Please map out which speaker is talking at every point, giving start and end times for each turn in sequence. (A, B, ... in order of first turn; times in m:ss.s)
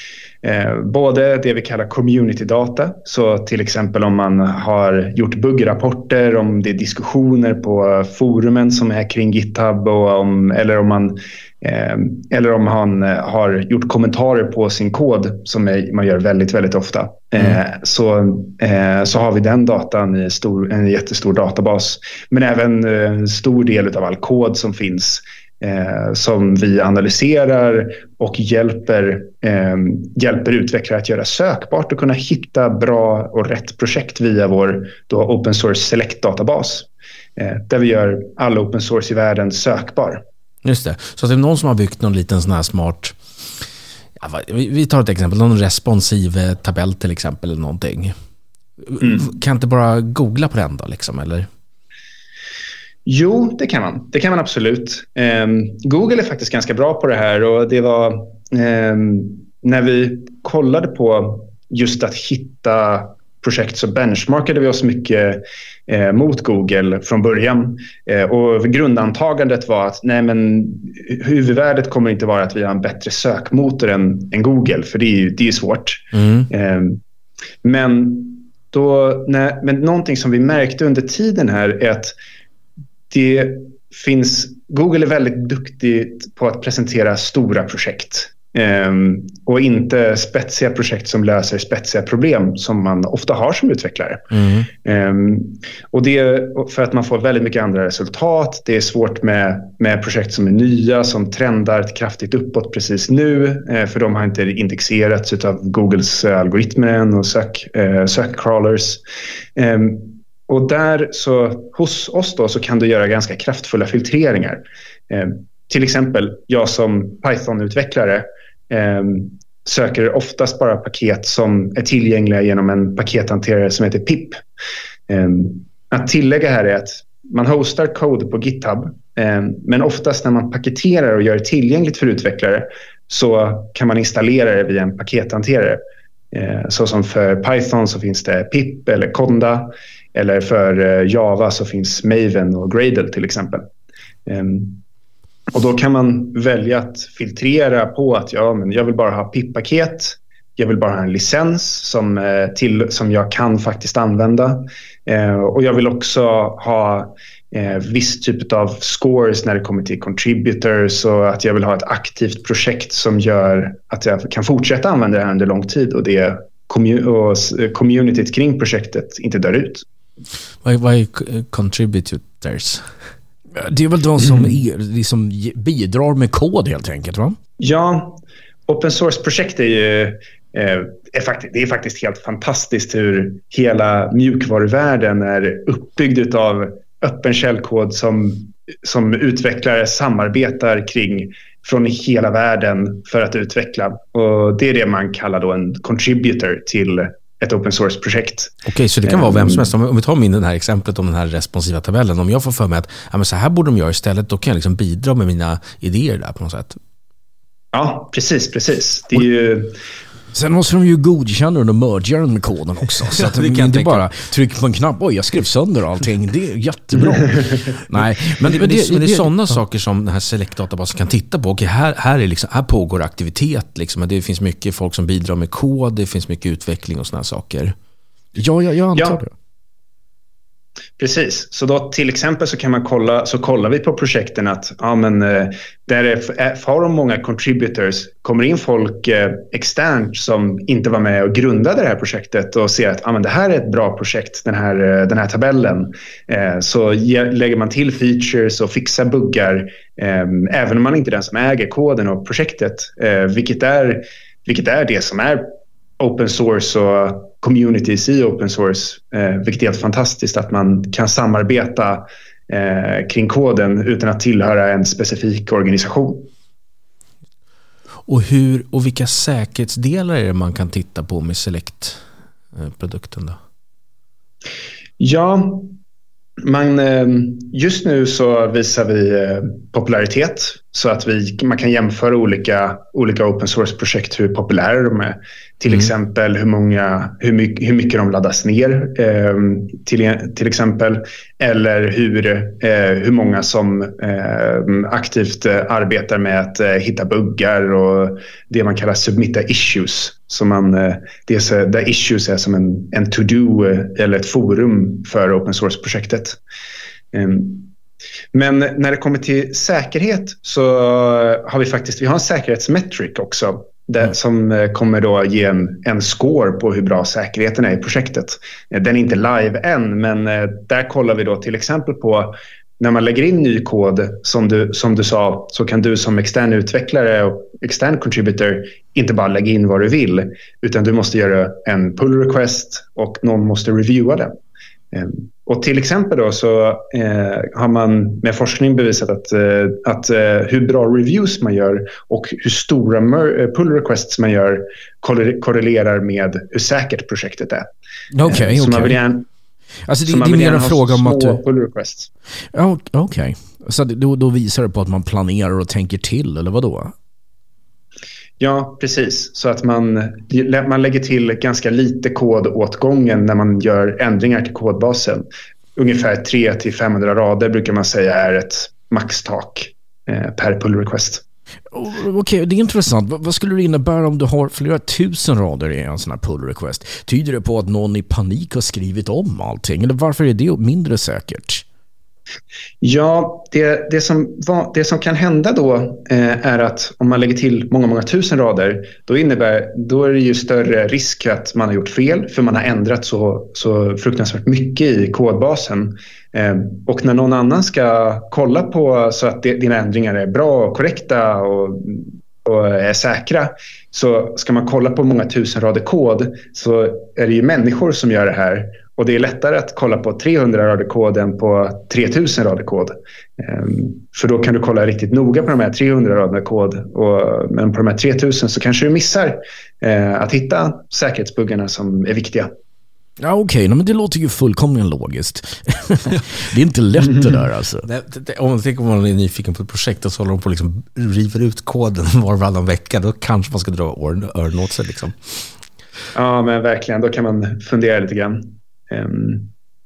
0:00.4-0:40.2 A
0:40.6-0:43.2 B
0:44.2-0:48.1 B
0:48.9-0:51.5 B
0:49.0-0:49.3 A
0:53.1-1:17.0 A
1:16.1-1:16.5 B
1:17.6-1:22.1 A
1:23.1-1:34.2 A
1:34.3-1:34.7 B
1:34.8-1:49.0 A
1:49.6-2:04.4 A
2:05.1-2:15.8 A
2:16.3-2:23.6 A
2:24.3-2:24.8 A
2:25.6-2:49.9 A
2:50.6-2:52.9 B
2:53.6-2:57.4 C
2:57.6-3:18.6 A
3:18.6-3:26.8 B
3:19.1-3:19.7 A
3:27.7-3:29.8 A
3:30.3-3:39.6 C
3:33.2-3:34.0 B
3:38.4-3:47.8 B
3:48.4-3:49.3 C
3:51.0-4:26.3 A
4:28.1-4:32.0 B
4:32.6-4:33.4 B
4:35.0-4:35.8 A
4:36.4-5:06.4 A
5:07.1-5:07.7 A
5:08.3-5:34.4 A
5:34.9-5:47.7 A
5:48.1-5:49.0 C
5:48.2-5:49.3 A
5:49.9-5:51.4 C
5:50.1-5:52.1 A
5:52.5-5:56.9 C
5:58.4-6:11.2 A
6:11.7-6:21.6 C
6:22.8-7:02.5 A
7:03.2-7:07.9 C
7:07.8-7:15.4 B
7:16.2-7:19.5 A